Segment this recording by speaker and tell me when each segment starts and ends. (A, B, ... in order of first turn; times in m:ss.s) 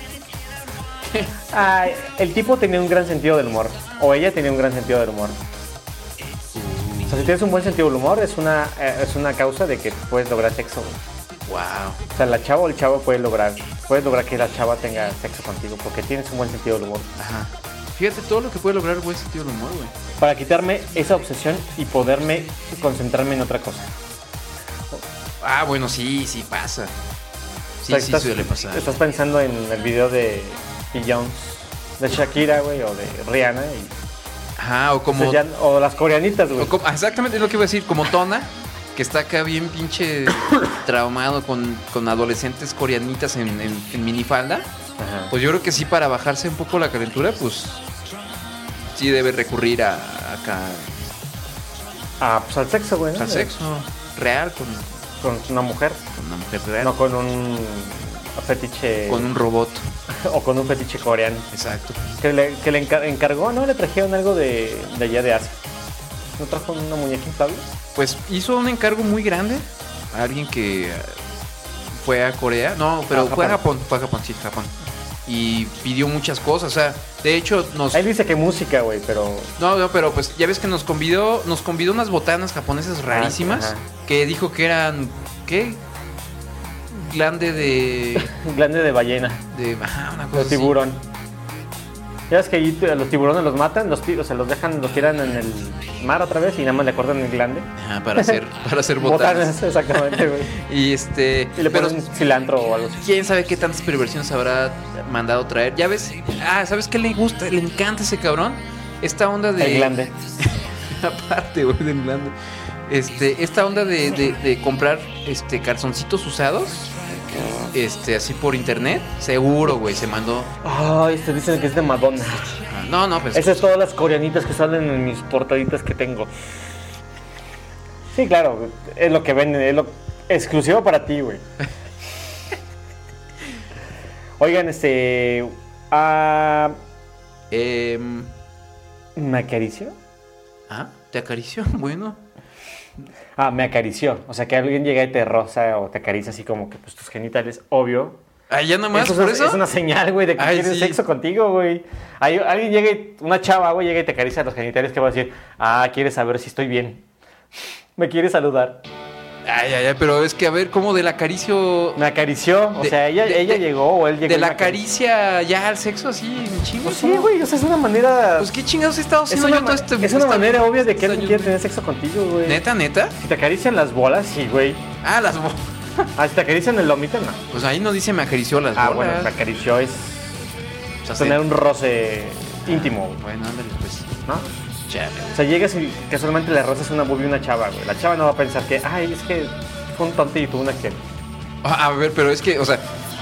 0:01.0-0:01.4 A
0:01.5-0:05.4 B
0:06.5-0:07.4 A
0:07.1-0:11.0 B
0:11.4-0:12.0 A
0:12.1-0:17.1 B
0:17.2-0:19.9 A
0:20.2-0:23.9 B
0:25.4-0:26.9 A
0:27.8-0:29.0 A
0:27.9-0:33.9 B
0:34.6-0:35.4 A
0:35.1-0:36.7 B
0:36.6-0:44.7 A
0:45.0-0:45.3 B
0:45.3-0:47.8 A
0:48.9-0:51.1 A
0:52.2-0:53.5 B
0:53.2-0:54.9 A
0:55.2-0:56.0 B
0:56.1-0:57.0 A
0:56.8-0:59.3 B
0:59.1-0:59.9 A
1:00.1-1:01.5 B
1:01.5-1:02.0 A
1:02.2-1:05.6 B
1:06.4-1:07.7 B
1:07.9-1:11.2 A
1:11.9-1:14.7 A
1:13.1-1:13.6 B
1:15.2-1:18.0 A
1:17.9-1:19.5 B
1:19.6-1:25.8 A
1:23.1-1:23.9 B
1:27.0-1:28.3 A
1:28.2-1:29.4 B
1:29.5-1:30.8 A
1:30.3-1:31.0 B
1:32.3-1:38.4 B
1:37.8-1:42.0 A
1:39.0-1:40.6 B
1:41.6-1:43.1 B
1:43.0-1:52.3 A
1:49.6-1:50.1 B
1:52.9-1:57.0 A
1:57.7-2:00.5 A
1:59.7-2:00.0 B
2:00.6-2:02.6 B
2:02.6-2:03.6 A
2:03.3-2:06.3 B
2:08.1-2:11.4 B
2:14.4-2:16.8 B
2:17.5-2:18.3 A
2:19.2-2:19.9 B
2:20.7-2:22.2 A
2:23.4-2:28.2 B
2:28.5-2:29.6 A
2:28.9-2:37.0 B
2:30.4-2:31.0 A
2:38.0-2:38.8 B
2:39.4-2:42.0 A
2:42.0-2:44.8 B
2:42.8-2:43.6 A
2:44.2-2:47.3 A
2:46.8-2:48.5 B
2:48.4-2:51.6 A
2:49.3-2:52.6 B
2:52.4-2:53.2 A
2:53.2-2:54.8 B
2:55.0-2:56.1 A
2:56.2-2:57.4 B
2:57.5-2:59.3 A
2:58.8-3:00.3 B
3:01.0-3:01.4 A
3:01.2-3:03.2 B
3:02.6-3:04.1 A
3:04.9-3:05.4 A
3:05.3-3:11.0 B
3:11.6-3:12.8 A